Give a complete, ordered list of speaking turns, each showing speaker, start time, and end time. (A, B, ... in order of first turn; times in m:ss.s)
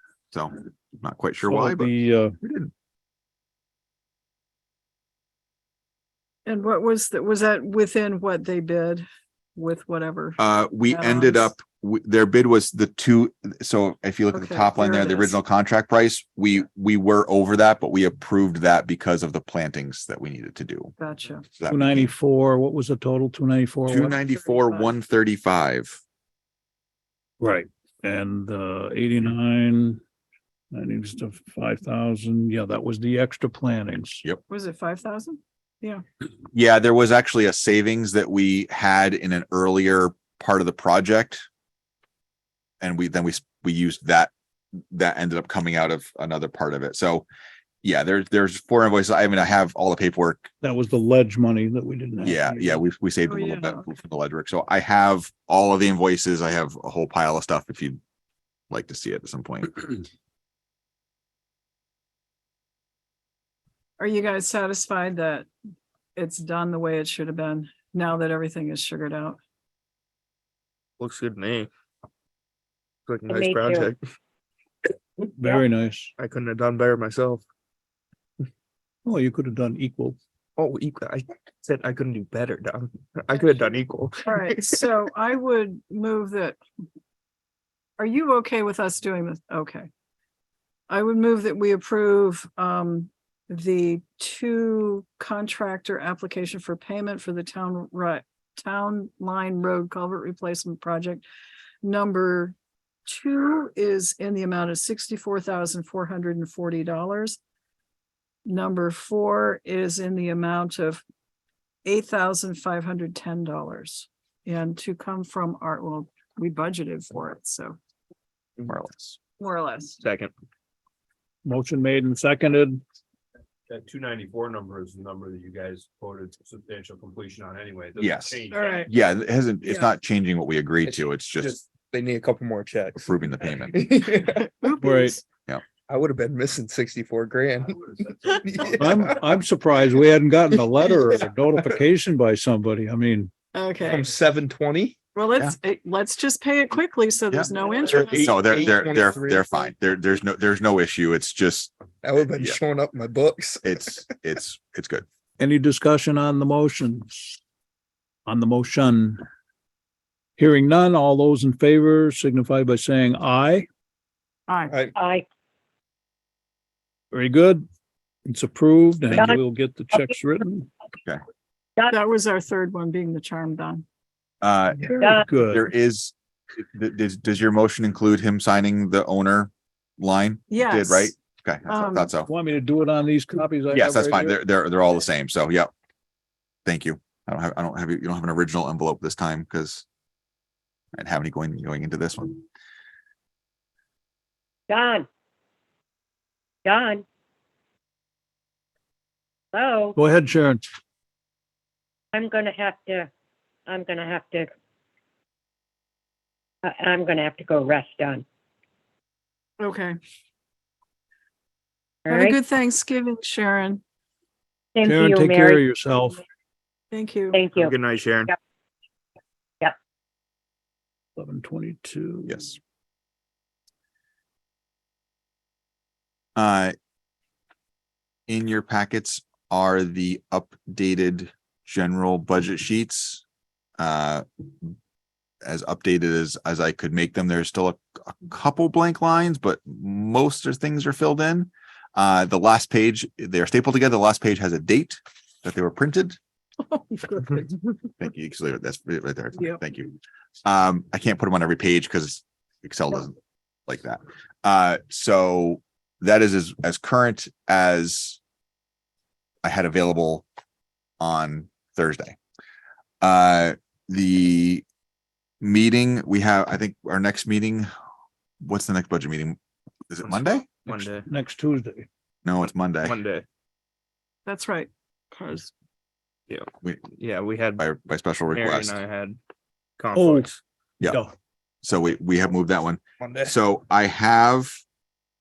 0:00.3-0:02.7 A
0:01.4-0:02.3 B
0:06.5-0:11.5 C
0:10.4-0:20.9 A
0:14.3-0:15.4 C
0:21.0-0:21.5 C
0:21.6-0:22.1 A
0:21.7-0:24.2 B
0:23.9-0:26.0 A
0:24.0-0:25.0 C
0:27.4-0:30.0 B
0:30.7-0:34.2 B
0:34.5-0:36.0 C
0:36.5-0:41.5 A
0:42.8-0:44.3 A
0:44.9-0:47.3 A
0:47.8-0:50.5 A
0:50.6-0:52.8 B
0:52.2-0:58.0 A
0:53.3-0:53.9 C
0:58.7-1:00.0 A
1:04.0-1:05.5 C
1:06.2-1:09.4 C
1:11.0-1:11.7 D
1:13.1-1:14.0 D
1:13.3-1:13.9 E
1:15.4-1:16.1 B
1:16.2-1:17.4 D
1:19.0-1:20.2 B
1:20.6-1:24.9 D
1:24.2-1:26.6 C
1:28.0-1:29.9 C
1:30.9-1:41.3 C
1:41.8-1:42.6 C
1:43.1-1:47.4 C
1:48.4-1:51.0 C
1:51.8-1:57.8 C
1:58.7-1:59.2 A
1:59.4-2:00.0 C
2:00.0-2:00.3 D
2:01.4-2:02.8 B
2:03.7-2:08.8 F
2:08.0-2:11.6 A
2:08.5-2:08.9 C
2:10.8-2:14.5 D
2:13.0-2:13.8 A
2:14.4-2:15.2 C
2:14.8-2:15.2 B
2:15.9-2:17.8 D
2:18.3-2:19.2 D
2:18.8-2:23.3 B
2:20.5-2:21.6 D
2:23.5-2:24.0 C
2:23.8-2:25.0 D
2:25.2-2:28.3 C
2:27.3-2:31.7 A
2:27.8-2:29.5 D
2:32.0-2:34.0 D
2:33.6-2:35.0 A
2:35.4-2:37.4 B
2:38.3-2:39.2 B
2:40.4-2:43.7 B
2:44.5-2:44.7 C
2:44.7-2:45.0 D
2:45.0-2:45.3 E
2:47.1-2:47.7 B
2:48.3-2:50.7 B
2:49.1-2:49.4 A
2:51.9-2:53.8 C
2:54.4-3:02.3 A
2:55.0-2:55.3 E
2:55.2-2:55.6 B
3:00.5-3:01.1 C
3:01.7-3:02.1 C
3:02.2-3:04.4 B
3:03.7-3:05.7 A
3:06.6-3:09.8 A
3:10.9-3:12.4 A
3:14.7-3:15.1 E
3:16.6-3:17.0 E
3:19.5-3:20.0 E
3:20.0-3:20.6 B
3:22.1-3:23.1 E
3:23.7-3:24.5 E
3:26.6-3:28.2 E
3:29.6-3:30.0 C
3:32.1-3:32.4 E
3:32.1-3:33.8 C
3:34.8-3:35.6 E
3:34.8-3:36.2 B
3:36.9-3:37.4 C
3:37.3-3:37.7 E
3:37.6-3:38.3 D
3:41.2-3:42.5 B
3:46.4-3:46.8 A
3:48.3-3:53.2 A
3:53.8-3:54.7 A
3:55.4-4:06.2 A
4:06.7-4:07.6 C
4:08.0-4:13.2 A
4:13.7-4:18.2 A
4:19.4-4:20.2 A
4:21.0-4:22.2 A
4:23.0-4:24.6 A
4:25.4-4:27.7 A
4:28.4-4:29.4 A
4:29.9-4:30.7 A
4:30.0-4:31.1 D
4:30.7-4:31.9 B
4:32.2-4:33.0 A
4:32.8-4:33.3 D
4:34.3-4:35.5 C
4:36.3-4:37.6 D
4:37.6-4:38.8 A
4:38.3-4:39.2 D
4:39.8-4:40.4 D
4:39.9-4:40.3 B
4:40.8-4:41.1 B
4:41.6-4:44.6 A
4:43.0-4:43.4 D